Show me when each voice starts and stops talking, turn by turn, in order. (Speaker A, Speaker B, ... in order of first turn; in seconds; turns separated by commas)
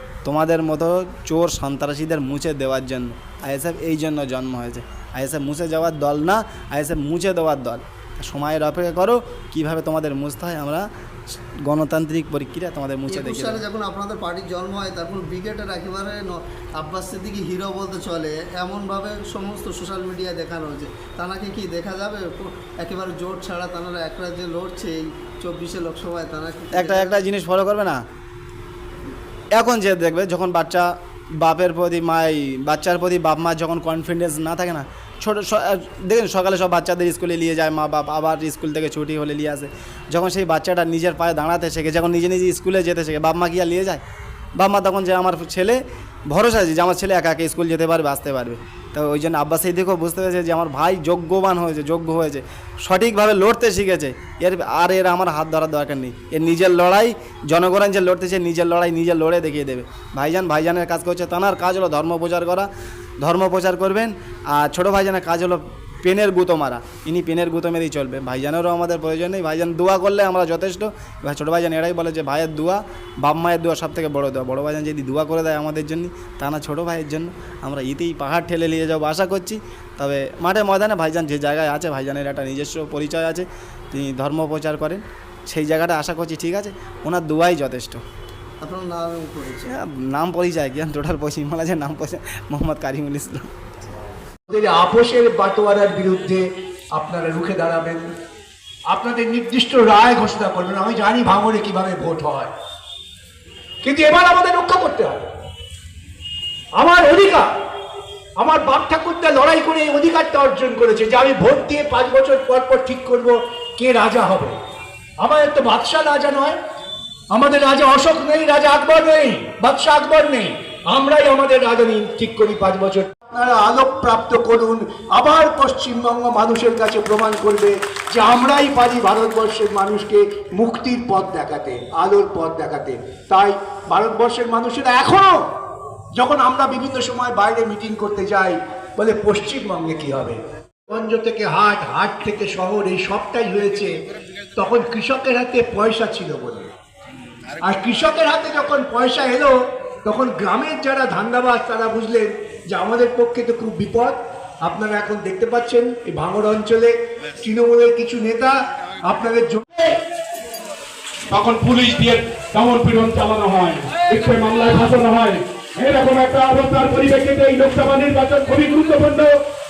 Speaker A: 0.2-10.9, Speaker A: 11.6-13.6, Speaker B: 13.1-27.2, Speaker A: 26.7-28.0, Speaker A: 29.5-44.0, Speaker A: 44.5-62.7, Speaker A: 63.2-88.0, Speaker B: 88.6-89.7, Speaker A: 89.7-93.5, Speaker C: 94.5-98.0, Speaker C: 98.9-102.5, Speaker C: 103.8-105.2, Speaker C: 106.7-107.5, Speaker C: 108.4-114.6, Speaker C: 115.2-116.6, Speaker C: 117.3-135.5, Speaker C: 136.1-143.9, Speaker C: 144.6-146.7, Speaker C: 147.6-159.9, Speaker D: 161.3-169.4